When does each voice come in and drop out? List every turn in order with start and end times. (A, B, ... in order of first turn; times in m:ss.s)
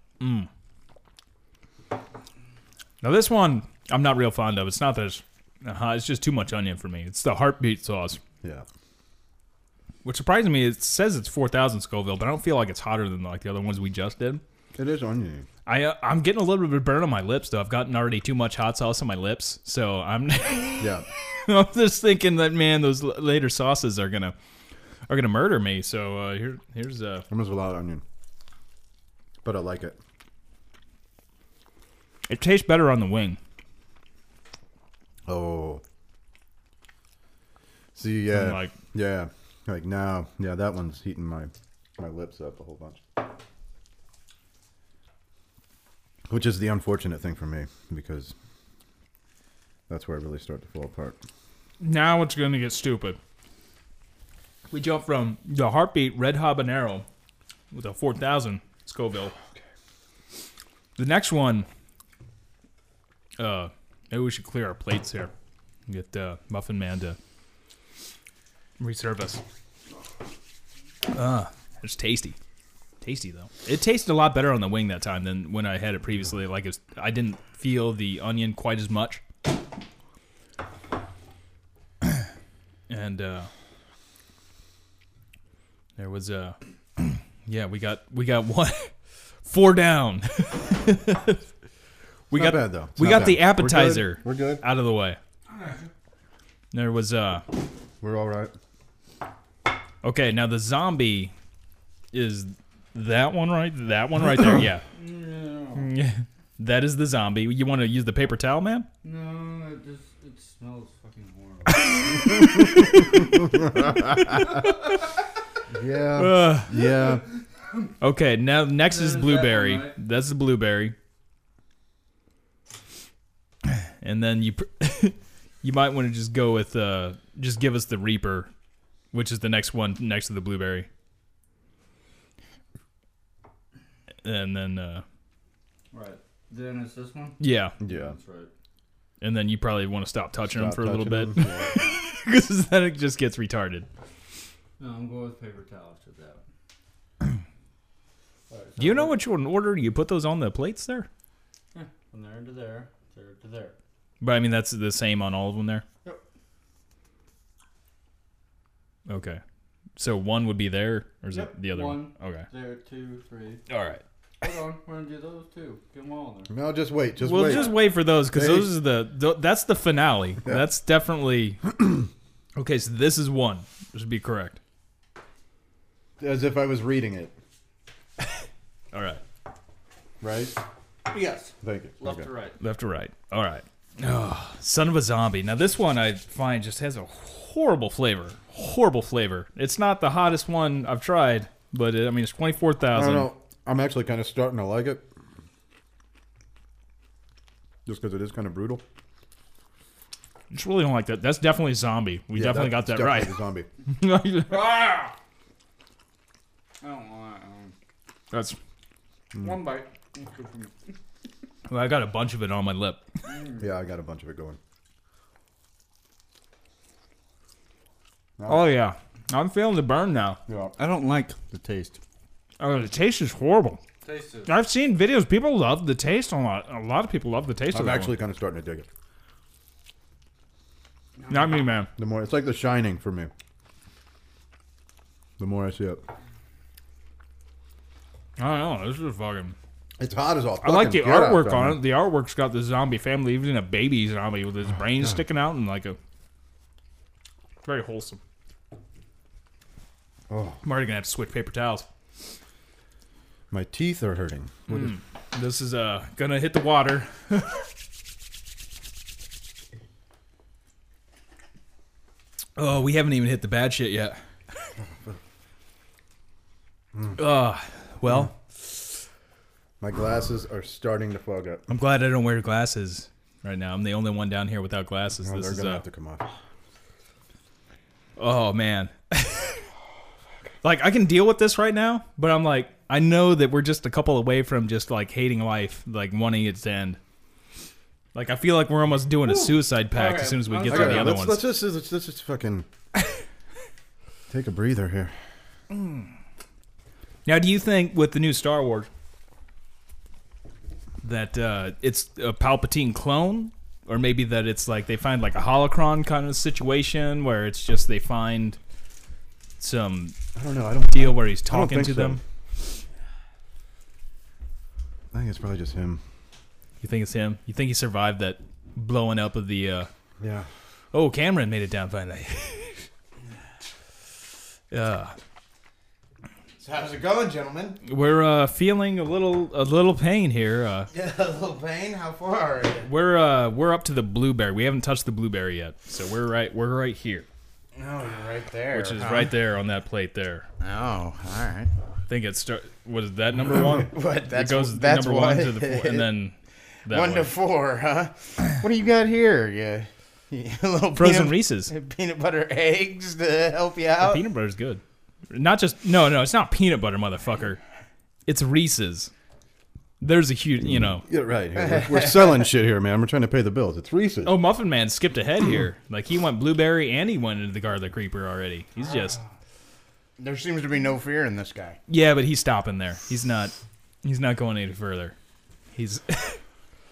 0:00.2-0:00.5 A
0:03.0-0:08.2 A
0:10.0-0:14.4 A
0:14.8-0:15.5 B
0:15.7-0:24.4 A
0:20.8-0:21.1 B
0:25.1-0:27.3 A
0:27.3-0:28.0 B
0:29.4-0:30.0 B
0:32.3-0:33.4 A
0:35.3-0:35.8 B
0:38.0-0:43.0 B
0:38.3-0:38.7 A
0:46.3-0:48.3 B
0:49.9-0:51.2 B
0:51.8-0:53.2 A
0:54.7-0:57.1 A
0:57.7-0:59.3 A
1:01.0-1:01.7 A
1:03.4-1:05.3 A
1:05.9-1:07.2 A
1:08.8-1:09.4 A
1:11.1-1:12.4 A
1:13.0-1:19.2 A
1:22.9-1:23.5 A
1:26.0-1:28.9 A
1:29.4-1:31.4 A
1:32.3-1:35.2 A
1:32.3-1:34.6 B
1:35.5-1:35.9 C
1:36.7-1:37.4 A
1:38.0-1:38.5 B
1:40.0-1:41.3 A
1:42.1-1:44.8 A
1:44.9-1:45.9 C
1:45.8-1:48.9 A
1:49.0-1:52.3 C
1:51.7-1:53.3 A
1:55.7-1:57.2 B
1:56.2-1:56.7 A
1:58.0-2:01.0 A
1:58.8-2:00.0 C
2:03.7-2:08.5 A
2:09.1-2:10.9 A
2:14.2-2:15.0 A
2:15.9-2:18.5 C
2:17.4-2:17.8 A
2:17.8-2:18.2 B
2:19.2-2:23.9 A
2:20.4-2:21.8 B
2:24.8-2:26.4 C
2:28.5-2:29.2 C
2:28.8-2:31.1 A
2:31.7-2:33.8 C
2:34.2-2:35.8 A
2:39.1-2:39.4 A
2:40.0-2:42.5 A
2:41.3-2:43.6 C
2:43.7-2:44.0 A
2:44.4-2:46.5 C
2:46.5-2:48.8 B
2:47.2-2:51.6 A
2:47.4-2:47.8 C
2:52.6-2:54.6 A
2:56.2-2:57.3 B
2:58.9-2:59.2 A
3:00.2-3:00.6 B
3:01.1-3:02.6 C
3:01.6-3:02.3 B
3:02.6-3:13.3 A
3:12.9-3:15.1 B
3:17.9-3:18.8 B
3:20.5-3:23.4 A
3:22.3-3:23.7 B
3:24.0-3:25.0 A
3:24.5-3:25.1 C
3:26.8-3:27.7 C
3:28.3-3:28.6 A
3:29.4-3:30.9 C
3:31.7-3:33.0 A
3:33.3-3:33.7 C
3:33.6-3:34.6 B
3:38.4-3:38.7 B
3:38.5-3:40.4 A
3:40.5-3:40.8 B
3:40.8-3:42.0 C
3:42.6-3:43.8 A
3:44.0-3:44.5 C
3:44.5-3:48.1 A
3:47.7-3:48.9 B
3:51.3-3:51.9 A
3:52.0-3:53.3 B
3:55.4-3:56.0 B
3:58.4-3:59.6 A
4:00.0-4:01.8 B
4:00.6-4:06.0 A
4:07.6-4:08.2 A
4:10.3-4:10.6 B
4:10.6-4:11.9 A
4:13.5-4:15.0 B
4:14.7-4:17.6 A
4:22.6-4:24.2 A
4:27.2-4:28.8 A
4:29.8-4:31.6 B
4:31.7-4:35.8 A
4:35.2-4:36.3 B
4:38.2-4:39.6 A
4:40.6-4:47.0 A
4:48.2-4:51.4 A
4:49.2-4:51.2 C
4:50.7-4:52.7 B
4:54.3-4:55.1 B
4:57.3-4:58.9 A
5:01.0-5:08.6 A
5:09.6-5:10.2 A
5:10.4-5:12.2 B
5:10.9-5:12.2 A
5:15.1-5:16.0 B
5:16.8-5:19.9 A
5:20.2-5:20.5 B
5:20.9-5:22.9 A
5:24.7-5:25.2 A
5:26.6-5:27.8 D
5:27.8-5:30.9 A
5:30.9-5:32.9 D
5:32.8-5:37.3 A
5:37.8-5:39.3 D
5:38.7-5:40.5 A
5:40.6-5:41.7 D
5:42.1-5:46.4 A
5:43.6-5:46.1 D
5:46.9-5:47.3 A
5:46.9-5:54.2 D
5:51.0-5:51.7 A
5:54.0-5:57.6 A
5:58.3-5:59.1 A
6:00.0-6:01.0 A
6:01.0-6:04.4 B
6:01.7-6:02.1 D
6:04.2-6:09.2 A
6:10.2-6:11.8 D
6:11.9-6:15.2 A
6:15.8-6:16.4 A